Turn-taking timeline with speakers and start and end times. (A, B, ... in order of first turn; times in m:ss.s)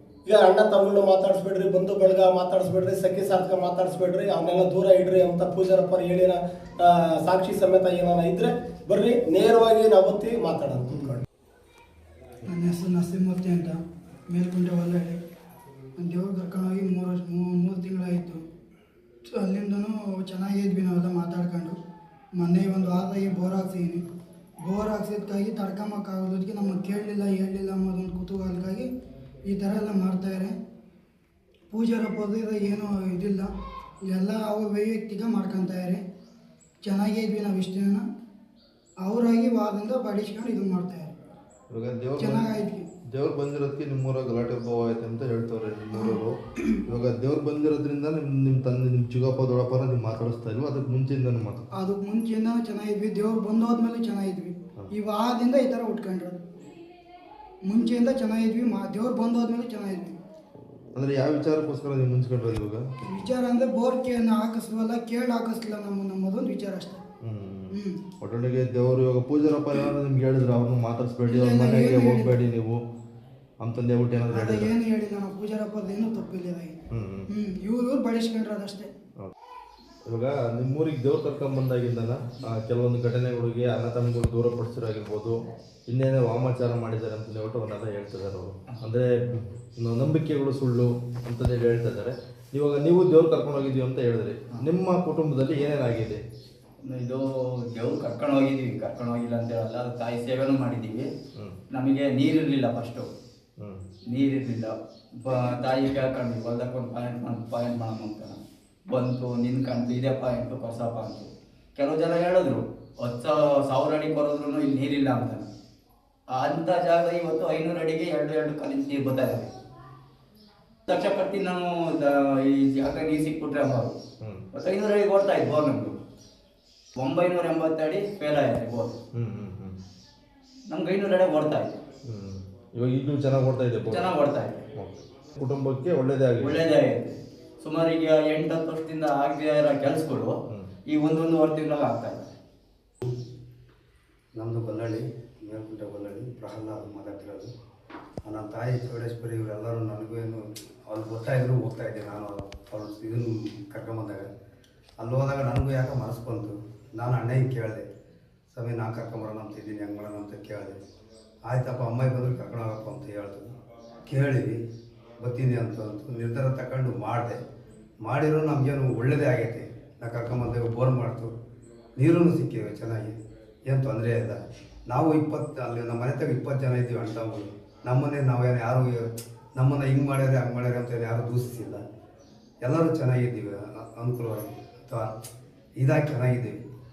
0:00.2-0:11.2 A
0:12.4-0:13.8 B
0:14.3-0:15.2 B
0:16.0-0:18.4 B
0:19.3-0:21.8 B
0:22.4-0:24.0 B
0:24.6-0:28.9 B
0:29.5-0:30.5 B
0:31.7-0:33.5 B
0:34.1-0:36.0 B
0:36.8-0:38.0 B
0:39.0-0:41.1 B
0:41.7-0:42.5 C
0:42.2-0:42.8 B
0:43.1-0:51.6 C
0:51.7-0:56.4 B
0:57.6-1:00.2 B
1:00.9-1:02.8 C
1:03.1-1:07.0 B
1:07.2-1:12.8 C
1:07.7-1:08.0 B
1:11.2-1:12.3 B
1:13.6-1:14.7 C
1:14.2-1:16.8 B
1:16.9-1:17.2 C
1:17.3-1:18.9 B
1:20.0-1:36.2 C
1:36.8-1:41.1 D
1:41.7-1:43.1 D
1:44.1-1:44.7 D
1:45.2-1:55.5 D
1:56.3-1:59.5 D
2:00.9-2:03.9 D
2:04.5-2:06.0 D
2:07.0-2:09.0 D
2:09.1-2:09.8 C
2:10.7-2:11.8 D
2:12.0-2:14.1 C
2:13.8-2:14.6 D
2:14.7-2:16.6 C
2:16.4-2:20.4 D
2:20.9-2:22.3 D
2:24.4-2:27.5 E
2:28.2-2:34.3 E
2:35.0-2:37.8 E
2:38.5-2:40.8 E
2:41.4-2:43.5 E
2:44.1-2:44.6 E
2:45.2-2:47.4 E
2:48.0-2:51.3 E
2:52.0-2:53.1 E
2:53.7-3:01.8 E
3:02.6-3:05.1 E
3:05.8-3:06.6 E